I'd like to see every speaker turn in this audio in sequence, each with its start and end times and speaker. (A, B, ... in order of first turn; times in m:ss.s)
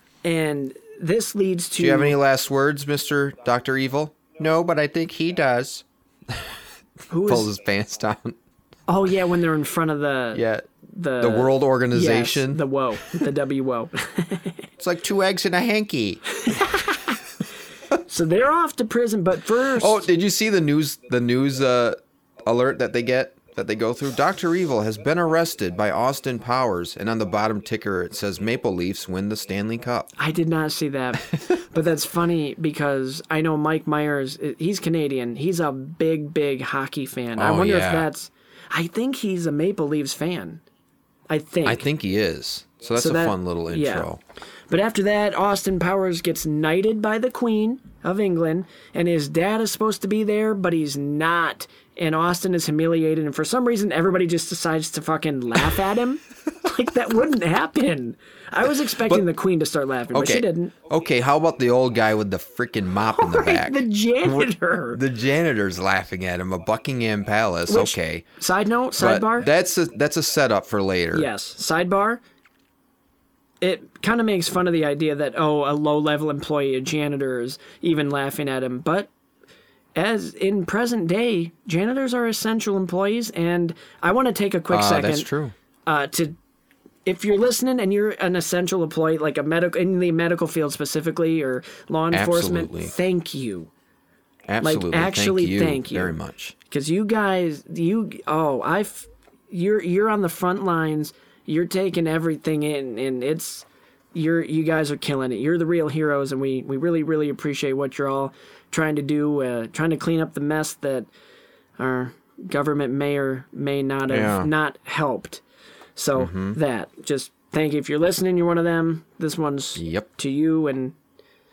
0:00.2-0:02.1 A
0:01.8-0:06.6 B
0:07.1-0:07.5 A
0:07.2-0:08.4 B
0:08.9-0:14.6 A
0:10.3-0:10.7 B
0:11.2-0:12.6 B
0:14.8-0:16.2 B
0:16.4-0:17.2 A
0:18.0-0:20.0 A
0:19.8-0:30.1 B
0:30.2-0:40.6 A
0:37.4-0:38.1 B
0:41.3-0:41.8 A
0:41.6-0:44.2 B
0:43.0-0:44.1 A
0:44.7-1:00.7 A
1:00.1-1:08.3 B
1:03.1-1:05.0 A
1:07.7-1:09.5 A
1:09.0-1:11.3 B
1:11.1-1:12.2 A
1:13.6-1:19.1 A
1:19.9-1:25.3 A
1:24.7-1:25.5 B
1:25.8-1:26.4 A
1:27.0-1:33.7 A
1:32.1-1:32.9 B
1:34.5-1:36.5 B
1:34.6-1:36.2 A
1:36.7-1:51.1 A
1:51.8-1:55.4 A
1:54.1-1:54.5 B
1:56.0-2:00.9 A
1:56.2-1:56.6 B
1:59.8-2:00.1 B